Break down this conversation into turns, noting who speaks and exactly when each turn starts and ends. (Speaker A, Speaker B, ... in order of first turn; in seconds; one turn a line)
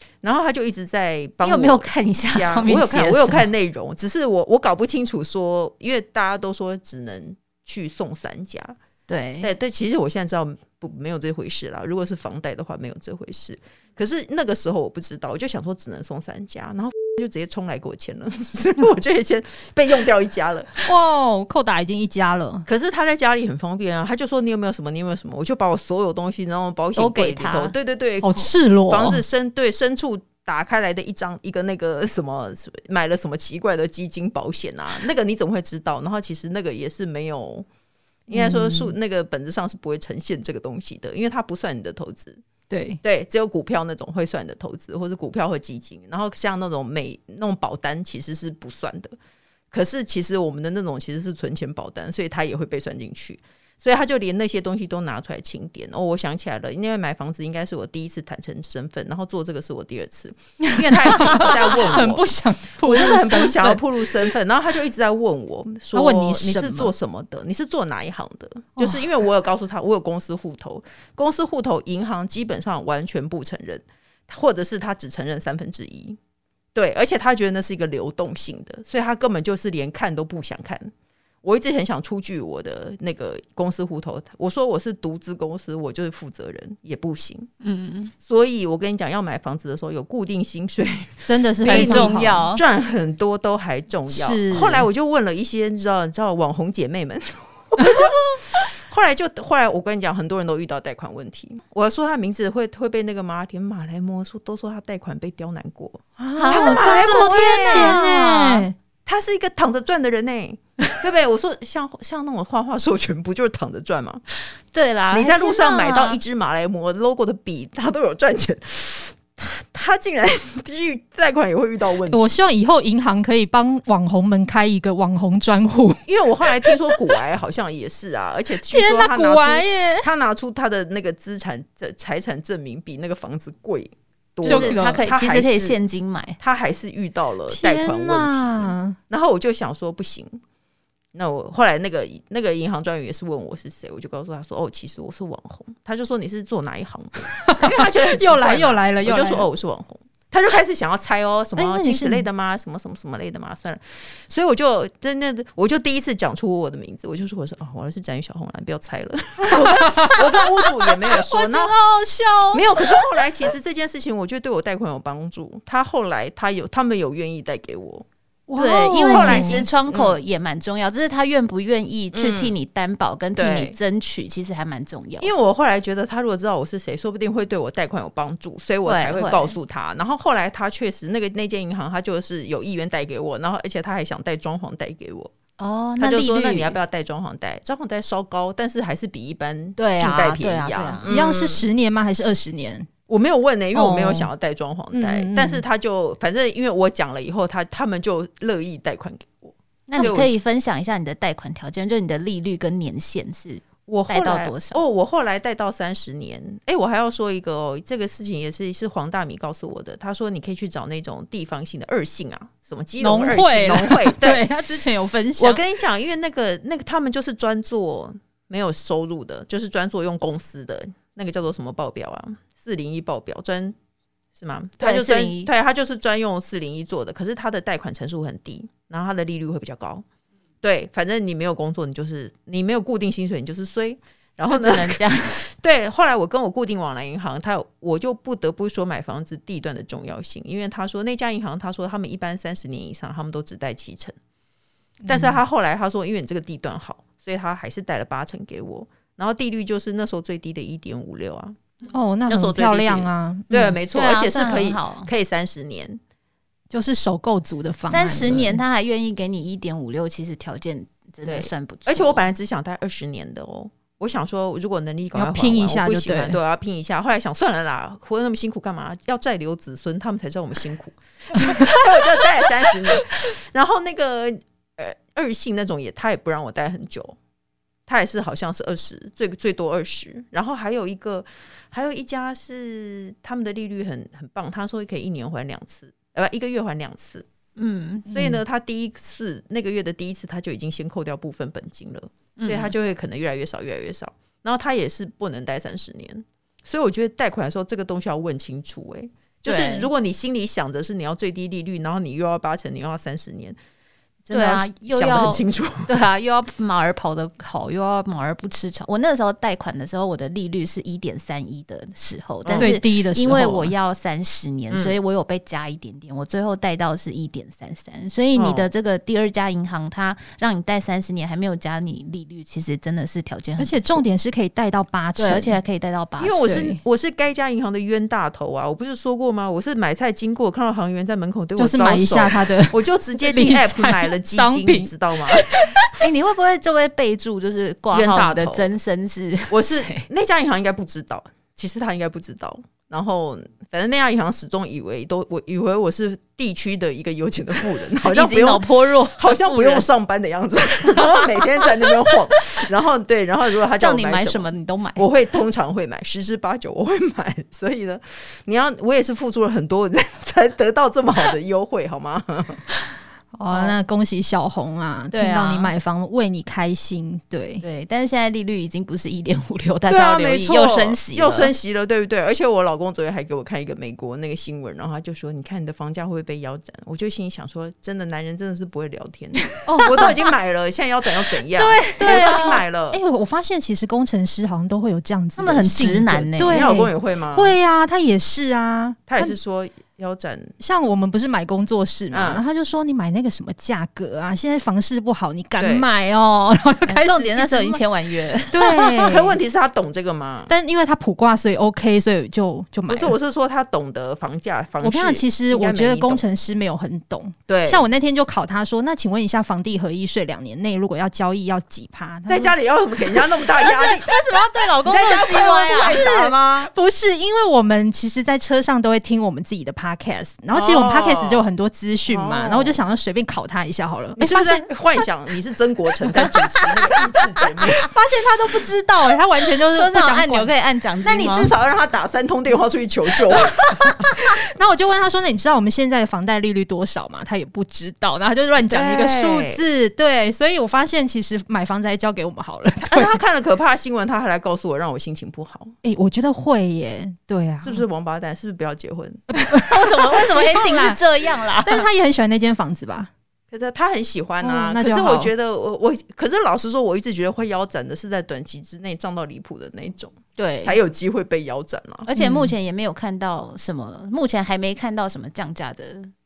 Speaker A: 0.2-8.7
Speaker B: 1.4-3.5
Speaker B: 9.1-9.5
Speaker A: 9.4-20.8
Speaker C: 20.8-22.7
Speaker A: 22.7-37.6
Speaker B: 26.9-27.7
Speaker C: 28.2-29.2
Speaker A: 38.3-42.4
Speaker C: 38.3-38.9
Speaker C: 42.7-43.0
Speaker A: 43.0-49.1
Speaker A: 49.7-62.3
Speaker C: 60.6-64.2
Speaker A: 62.8-76.2
Speaker C: 65.9-66.9
Speaker C: 68.8-69.0
Speaker A: 76.7-80.9
Speaker A: 81.4-87.5
Speaker B: 87.6-88.1
Speaker A: 88.2-108.4
Speaker C: 91.2-92.5
Speaker B: 91.6-92.6
Speaker C: 94.1-94.9
Speaker C: 106.2-108.7
Speaker B: 106.3-108.5
Speaker A: 109.0-114.2
Speaker B: 114.7-116.2
Speaker A: 115.1-122.3
Speaker C: 122.1-126.9
Speaker A: 126.0-135.8
Speaker C: 128.6-130.1
Speaker B: 134.4-136.4
Speaker C: 134.4-135.1
Speaker A: 136.4-140.4
Speaker C: 137.5-139.0
Speaker A: 141.1-161.8
Speaker C: 147.3-149.5
Speaker C: 151.6-152.3
Speaker C: 159.4-163.3
Speaker A: 162.5-168.1
Speaker C: 168.5-169.7
Speaker B: 168.6-175.3
Speaker A: 169.1-170.2
Speaker A: 172.1-172.5
Speaker A: 173.3-173.8
Speaker A: 175.2-185.3
Speaker B: 178.8-179.6
Speaker B: 185.6-186.8
Speaker A: 186.0-191.7
Speaker B: 189.8-191.1
Speaker C: 191.0-192.9
Speaker A: 193.1-200.3
Speaker C: 193.7-194.3
Speaker C: 194.9-195.6
Speaker B: 199.9-204.8
Speaker A: 203.9-214.5
Speaker C: 213.0-215.6
Speaker A: 215.4-223.7
Speaker A: 224.3-230.0
Speaker B: 224.8-225.5
Speaker A: 230.6-244.1
Speaker B: 234.5-235.4
Speaker C: 245.0-245.4
Speaker A: 245.1-251.6
Speaker C: 251.9-253.8
Speaker A: 252.3-256.0
Speaker B: 253.9-255.1
Speaker C: 256.7-258.6
Speaker B: 257.9-262.2
Speaker A: 261.2-277.1
Speaker C: 265.1-266.4
Speaker A: 277.9-287.2
Speaker B: 287.6-288.1
Speaker C: 288.1-288.4
Speaker A: 288.1-303.6
Speaker B: 292.4-292.7
Speaker B: 299.4-299.9
Speaker A: 304.3-305.9
Speaker B: 304.3-324.0
Speaker A: 312.4-312.8
Speaker C: 312.6-313.7
Speaker A: 314.7-314.9
Speaker A: 318.3-318.7
Speaker C: 323.6-325.6
Speaker B: 325.2-326.4
Speaker A: 326.2-335.5
Speaker C: 326.4-326.8
Speaker C: 331.6-334.9
Speaker C: 335.5-336.0
Speaker B: 336.0-340.1
Speaker A: 337.9-338.7
Speaker A: 339.5-362.6
Speaker B: 348.0-349.9
Speaker B: 350.8-352.1
Speaker B: 353.8-355.1
Speaker C: 363.3-367.6
Speaker B: 363.5-363.8
Speaker B: 365.1-365.7
Speaker B: 367.6-371.5
Speaker A: 369.9-383.0
Speaker C: 379.6-380.1
Speaker B: 379.8-380.1
Speaker B: 381.5-382.6
Speaker C: 382.0-389.3
Speaker B: 385.4-386.9
Speaker A: 386.4-387.6
Speaker A: 389.1-390.5
Speaker C: 390.6-397.8
Speaker A: 392.1-392.4
Speaker A: 395.6-395.9
Speaker B: 396.9-399.0
Speaker C: 398.5-399.4
Speaker A: 399.0-400.5
Speaker C: 400.5-403.1
Speaker A: 402.9-406.2
Speaker C: 404.8-413.3
Speaker A: 407.5-407.9
Speaker A: 412.3-414.1
Speaker B: 413.6-416.1
Speaker A: 414.8-416.7
Speaker C: 415.7-424.7
Speaker A: 420.5-421.5
Speaker A: 422.1-422.8
Speaker A: 424.2-427.9
Speaker C: 426.1-426.8
Speaker C: 427.8-430.5
Speaker B: 429.6-431.5
Speaker A: 431.0-434.1
Speaker C: 434.1-443.2
Speaker A: 438.7-439.6
Speaker A: 442.8-445.7
Speaker C: 445.8-447.8
Speaker A: 447.6-449.2
Speaker C: 449.3-451.0
Speaker B: 449.7-451.8
Speaker C: 451.6-453.1
Speaker A: 453.5-462.1
Speaker C: 454.4-455.3
Speaker B: 460.4-460.8
Speaker B: 462.0-466.1
Speaker C: 462.1-462.5